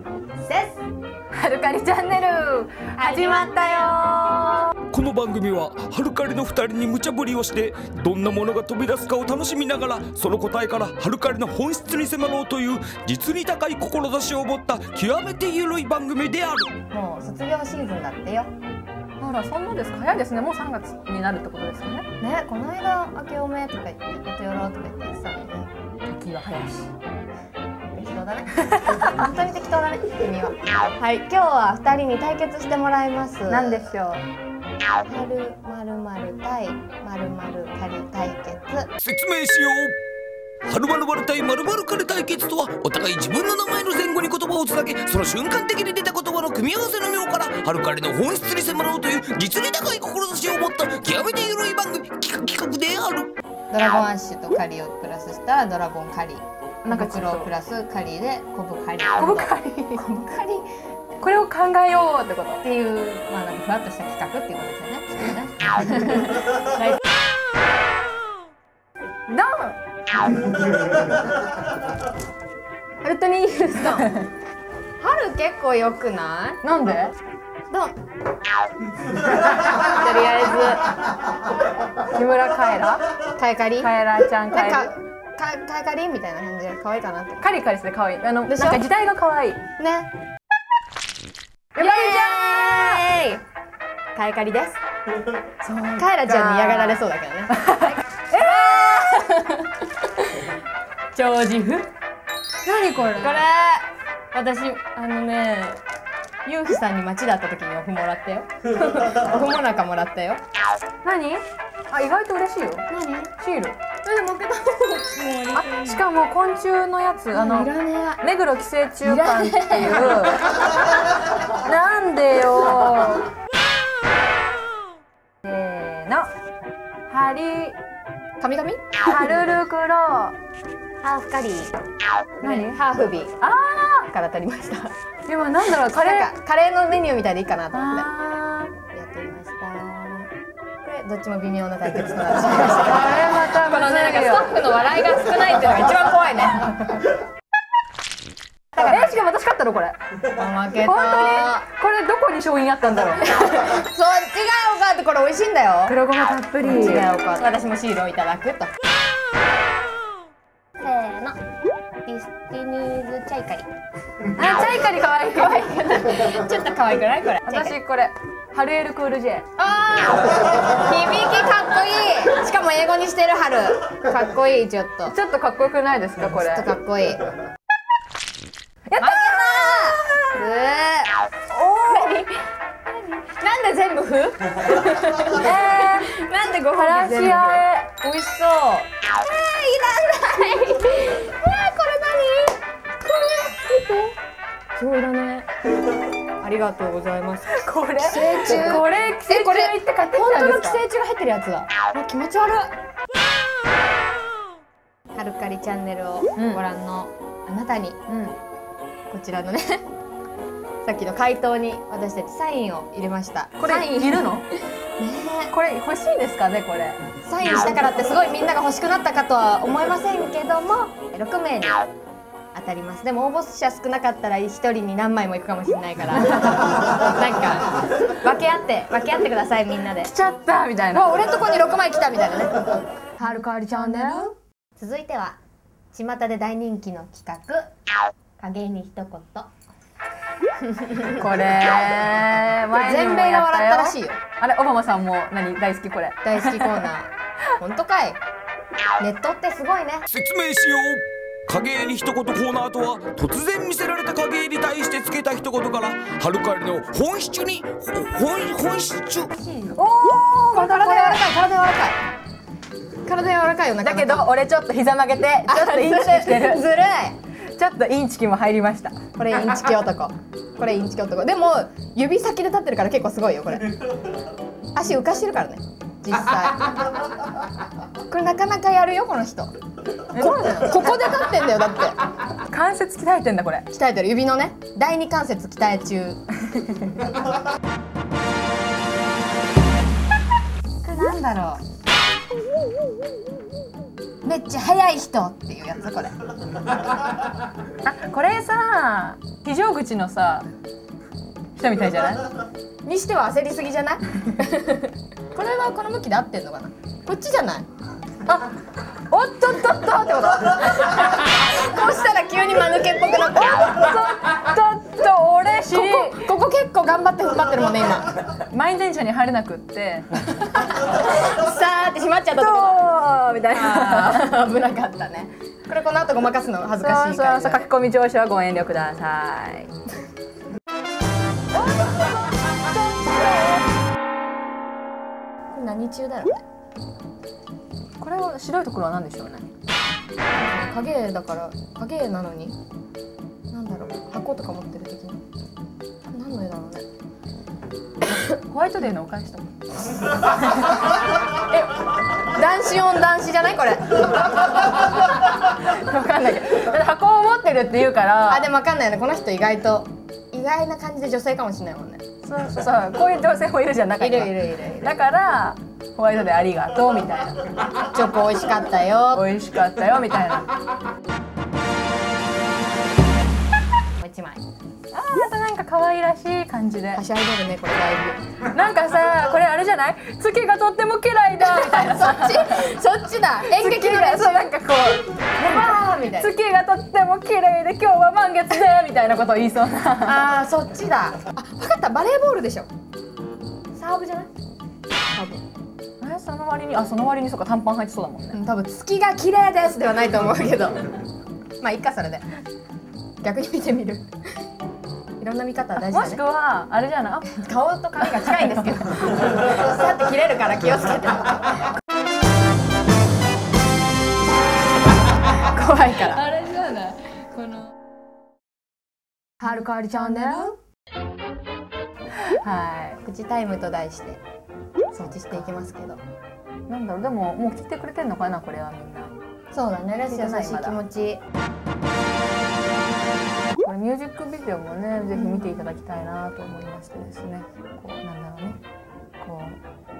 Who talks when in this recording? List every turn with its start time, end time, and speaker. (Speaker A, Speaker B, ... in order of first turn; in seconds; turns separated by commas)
Speaker A: 0.4-0.8, Speaker B: 1.3-3.9, Speaker A: 3.0-4.7, Speaker C: 4.9-16.7, Speaker A: 16.9-18.5, Speaker B: 19.2-22.1, Speaker A: 22.2-25.7, Speaker B: 26.1-26.9, Speaker A: 27.9-33.9, Speaker B: 33.5-34.2, Speaker A: 35.0-38.9, Speaker C: 39.0-40.0, Speaker C: 40.6-53.3, Speaker A: 53.7-60.6, Speaker B: 56.8-57.5, Speaker B: 59.2-60.0, Speaker B: 61.2-62.6, Speaker A: 62.6-67.0, Speaker B: 69.3-69.8, Speaker A: 73.0-74.1, Speaker A: 75.0-76.6, Speaker B: 76.6-77.1, Speaker A: 77.7-77.9, Speaker A: 79.6-80.9, Speaker B: 82.1-83.1, Speaker A: 83.3-83.9, Speaker B: 83.8-84.9, Speaker A: 84.5-87.5, Speaker B: 87.4-89.6, Speaker A: 88.5-88.8, Speaker A: 89.8-90.1, Speaker B: 91.8-92.8, Speaker A: 91.8-93.4, Speaker A: 94.1-94.8, Speaker B: 95.6-97.0, Speaker A: 96.0-99.2, Speaker B: 97.6-99.0, Speaker A: 101.1-101.9, Speaker B: 102.6-103.4, Speaker A: 103.2-105.8, Speaker A: 106.4-110.4, Speaker B: 111.0-112.9, Speaker A: 112.9-113.3, Speaker B: 113.4-113.8, Speaker A: 114.0-116.0, Speaker B: 115.5-120.5, Speaker A: 117.3-118.2, Speaker A: 119.0-120.6, Speaker B: 121.6-123.3, Speaker B: 125.4-126.3, Speaker B: 127.1-127.8, Speaker A: 128.4-129.0, Speaker B: 129.0-130.3, Speaker A: 131.0-131.7, Speaker A: 132.4-133.4, Speaker B: 132.4-132.8, Speaker B: 133.4-134.1, Speaker A: 134.1-134.9, Speaker B: 135.3-136.3, Speaker A: 135.7-138.1, Speaker B: 137.7-138.7, Speaker A: 138.9-140.3, Speaker A: 140.8-146.9, Speaker B: 142.8-144.5, Speaker A: 148.7-149.2, Speaker B: 148.8-150.0, Speaker A: 150.2-151.6, Speaker B: 150.8-153.4, Speaker A: 153.4-156.0, Speaker B: 155.8-157.1, Speaker A: 156.6-158.7, Speaker A: 160.8-161.4, Speaker A: 162.0-163.7, Speaker B: 164.3-166.2, Speaker A: 165.8-167.8, Speaker B: 167.4-169.4, Speaker A: 169.6-175.1, Speaker B: 175.1-176.7, Speaker A: 176.4-177.2, Speaker B: 178.8-179.8, Speaker A: 179.0-181.1, Speaker B: 181.5-182.2, Speaker A: 181.9-182.4, Speaker A: 182.9-194.1, Speaker B: 185.2-186.1, Speaker B: 186.7-187.9, Speaker A: 194.8-195.5, Speaker A: 196.4-202.7, Speaker B: 197.5-200.8, Speaker A: 205.1-208.0, Speaker B: 206.3-206.6, Speaker B: 208.1-208.4, Speaker A: 209.1-209.8, Speaker A: 210.8-214.4, Speaker B: 213.6-214.4, Speaker A: 215.0-215.5, Speaker B: 215.5-217.0, Speaker A: 217.2-221.8, Speaker A: 222.5-230.1, Speaker B: 230.0-231.2, Speaker A: 230.9-232.5, Speaker B: 233.2-234.3, Speaker A: 233.2-235.4, Speaker A: 235.9-237.7, Speaker A: 238.4-239.5, Speaker A: 240.8-241.2, Speaker B: 241.0-246.9, Speaker A: 242.7-244.2, Speaker A: 246.2-248.2, Speaker A: 249.0-250.1, Speaker C: 250.1-259.3, Speaker A: 259.3-259.8, Speaker B: 259.8-261.3, Speaker A: 260.5-262.0, Speaker A: 263.0-264.3, Speaker B: 263.8-266.6, Speaker A: 265.5-267.2, Speaker B: 267.5-269.7, Speaker A: 269.2-273.8, Speaker A: 274.7-277.0, Speaker A: 278.1-279.5, Speaker B: 280.1-281.2, Speaker A: 280.1-282.0, Speaker B: 282.5-283.6, Speaker A: 283.7-286.2, Speaker A: 290.8-291.6, Speaker A: 294.2-296.2, Speaker B: 297.8-300.5, Speaker B: 301.6-302.3, Speaker A: 302.8-307.7, Speaker B: 309.1-311.0, Speaker A: 310.9-313.9, Speaker B: 312.8-316.3, Speaker A: 315.7-318.1, Speaker B: 318.5-320.1, Speaker A: 320.4-322.8, Speaker B: 322.4-324.3, Speaker A: 323.5-327.7, Speaker B: 326.8-329.7, Speaker A: 335.5-336.4, Speaker B: 338.0-339.5, Speaker A: 340.3-342.6, Speaker A: 343.5-345.2, Speaker A: 346.1-346.9, Speaker B: 348.4-349.4, Speaker A: 352.2-354.4, Speaker B: 355.4-358.5, Speaker A: 358.3-362.0, Speaker B: 362.2-367.3, Speaker A: 364.0-365.0, Speaker A: 366.9-369.3, Speaker B: 369.1-370.5, Speaker A: 374.0-374.4, Speaker B: 374.9-377.0, Speaker A: 376.9-378.2, Speaker B: 378.4-382.8, Speaker A: 381.4-384.4, Speaker B: 383.4-390.3, Speaker A: 385.4-386.3, Speaker A: 390.0-392.7, Speaker A: 393.8-394.3, Speaker A: 395.1-395.4, Speaker B: 396.0-398.4, Speaker A: 398.3-401.0, Speaker A: 401.6-402.3, Speaker A: 403.2-404.1, Speaker A: 405.2-406.2, Speaker B: 405.8-407.4, Speaker A: 407.3-411.5, Speaker B: 408.0-408.6, Speaker A: 415.3-416.2, Speaker B: 416.0-417.7, Speaker A: 419.4-420.6, Speaker B: 419.6-420.5, Speaker B: 422.2-423.0, Speaker A: 423.0-424.2, Speaker A: 424.9-426.0, Speaker B: 426.7-429.1, Speaker A: 429.5-431.2, Speaker B: 430.1-430.8, Speaker B: 433.5-438.6, Speaker A: 435.1-435.7, Speaker B: 439.2-439.6